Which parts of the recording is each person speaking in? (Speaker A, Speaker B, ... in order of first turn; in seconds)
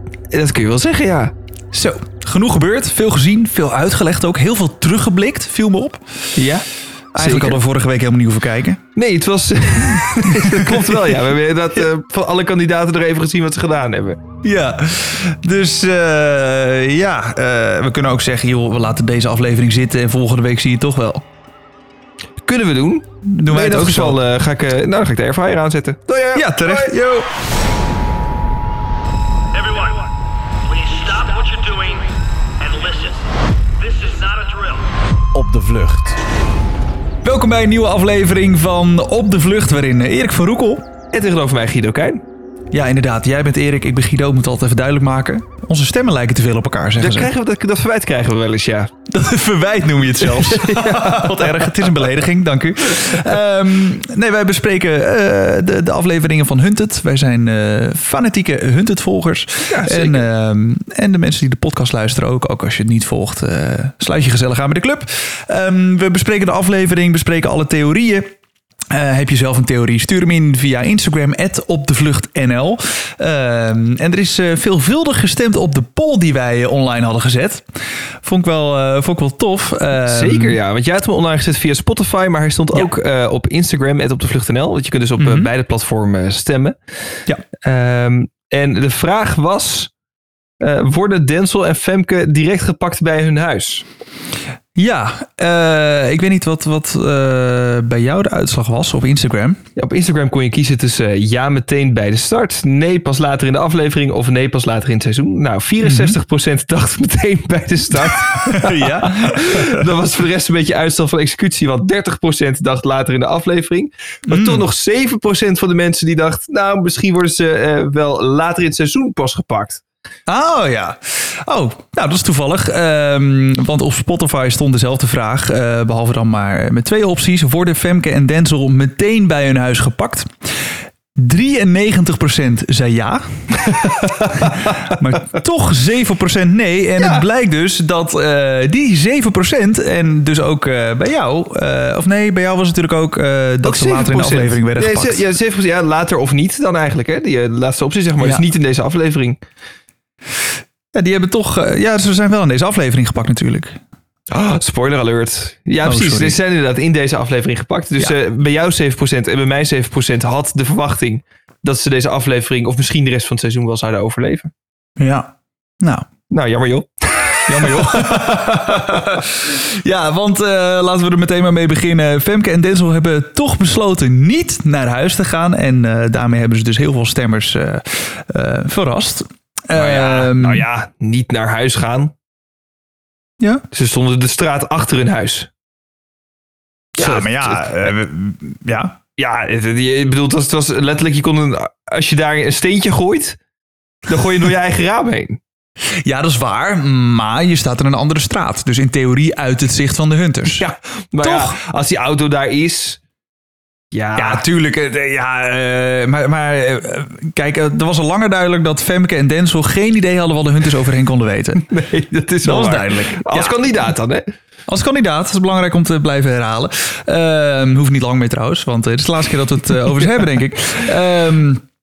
Speaker A: 0.3-1.3, 6.4-7.6, 9.0-14.2, 22.4-26.9, 41.1-42.2, 47.0-48.9, 50.2-52.1, 59.7-60.3, 80.0-86.8, 87.6-89.9, 90.6-93.8, 99.8-119.8, 133.8-134.5, 137.0-137.2, 143.6-149.4, 154.3-164.5, 166.3-169.2, 179.7-182.1, 183.7-185.5, 187.0-187.9, 189.2-193.4, 194.1-195.4, 200.6-203.0, 203.9-204.4, 211.7-214.3
Speaker B: 1.7-6.3, 7.2-8.8, 10.3-11.0, 14.4-21.3, 23.3-24.2, 26.3-27.3, 37.2-40.8, 42.7-47.3, 49.1-68.3, 68.9-77.7, 78.2-80.6, 85.2-85.5, 94.8-99.6, 105.8-106.2, 108.3-109.9, 114.3-114.6, 120.3-145.2, 150.9-153.8, 155.8-156.4, 165.0-166.1, 167.5-180.6, 187.0-189.0, 196.0-200.7, 201.2-201.6, 204.2-211.7, 212.4-213.7, 214.7-221.7
Speaker C: 29.6-30.0, 30.7-33.1, 33.8-34.8, 35.3-36.2